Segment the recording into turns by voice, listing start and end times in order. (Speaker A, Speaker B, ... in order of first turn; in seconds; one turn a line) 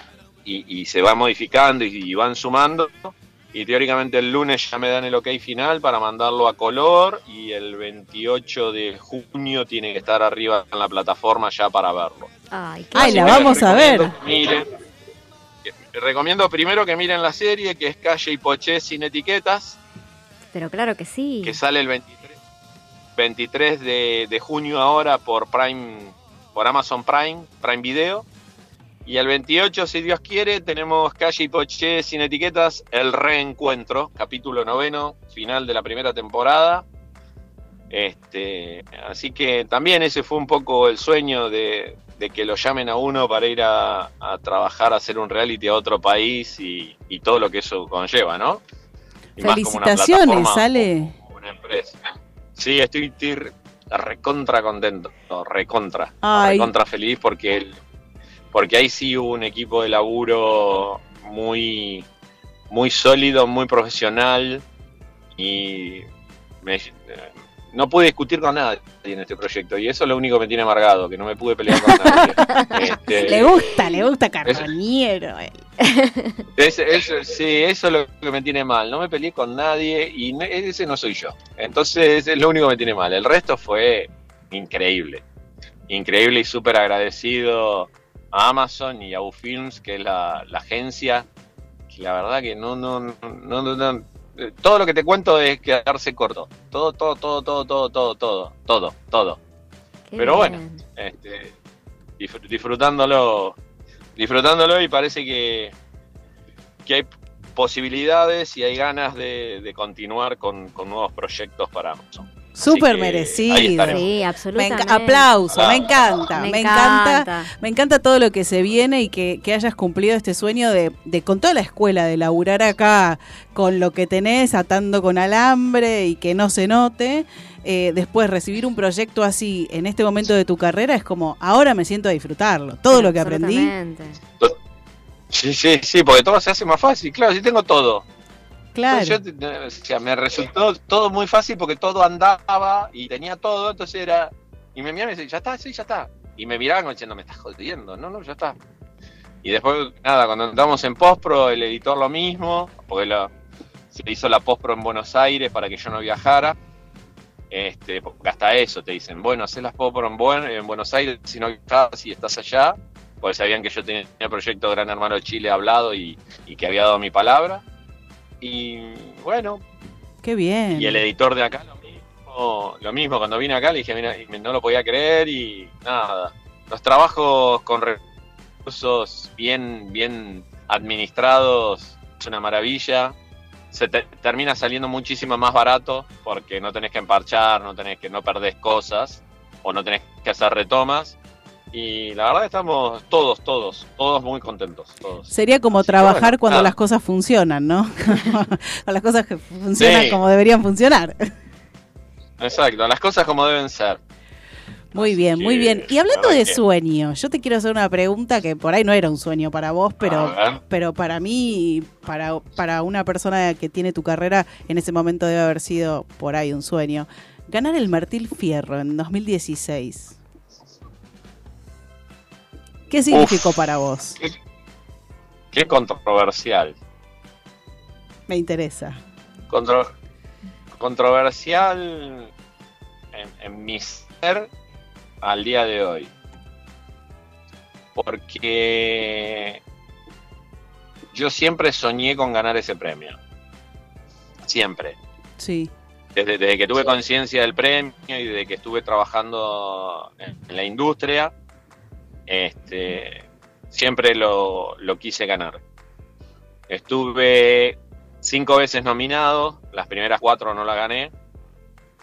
Speaker A: 0.5-12.3
Speaker B: 12.5-14.0
Speaker C: 12.9-14.1
Speaker A: 13.0-14.7
Speaker A: 15.7-19.8
Speaker B: 20.5-21.6
Speaker A: 21.4-22.3
Speaker A: 23.1-28.2
Speaker A: 29.1-36.8
Speaker A: 37.9-48.6
Speaker C: 49.4-51.1
Speaker A: 49.4-52.0
Speaker A: 52.6-57.8
Speaker C: 56.2-56.7
Speaker A: 58.5-62.0
Speaker A: 62.7-64.6
Speaker A: 65.4-66.0
Speaker A: 66.6-73.8
Speaker C: 71.9-75.6
Speaker B: 75.8-76.4
Speaker A: 76.6-85.2
Speaker A: 85.9-91.2
Speaker A: 91.9-99.4
Speaker B: 100.1-100.8
Speaker A: 100.2-101.5
Speaker A: 102.2-103.5
Speaker A: 104.2-105.7
Speaker A: 106.8-114.0
Speaker C: 112.5-133.7
Speaker B: 113.8-115.3
Speaker A: 115.5-115.9
Speaker B: 116.3-117.5
Speaker B: 132.9-134.2
Speaker A: 135.3-138.0
Speaker C: 138.7-139.2
Speaker A: 138.9-148.6
Speaker A: 149.4-153.3
Speaker A: 153.9-156.6
Speaker A: 157.5-167.6
Speaker A: 168.4-169.6
Speaker C: 170.2-171.0
Speaker A: 170.7-178.0
Speaker A: 178.7-183.1
Speaker A: 183.7-191.2
Speaker A: 191.7-196.7
Speaker C: 195.3-201.3
Speaker A: 199.8-200.2
Speaker A: 202.4-204.0
Speaker C: 204.9-220.2
Speaker A: 204.9-206.6
Speaker A: 210.0-210.6
Speaker C: 222.9-224.2
Speaker A: 223.1-224.3
Speaker A: 225.5-226.8
Speaker C: 228.3-229.0
Speaker A: 229.5-229.9
Speaker A: 230.7-232.3
Speaker A: 233.1-234.5
Speaker A: 235.2-236.1
Speaker A: 237.9-239.6
Speaker A: 241.1-243.2
Speaker A: 244.4-245.0
Speaker C: 245.4-245.7
Speaker A: 246.1-251.3
Speaker A: 252.3-255.6
Speaker A: 256.7-261.1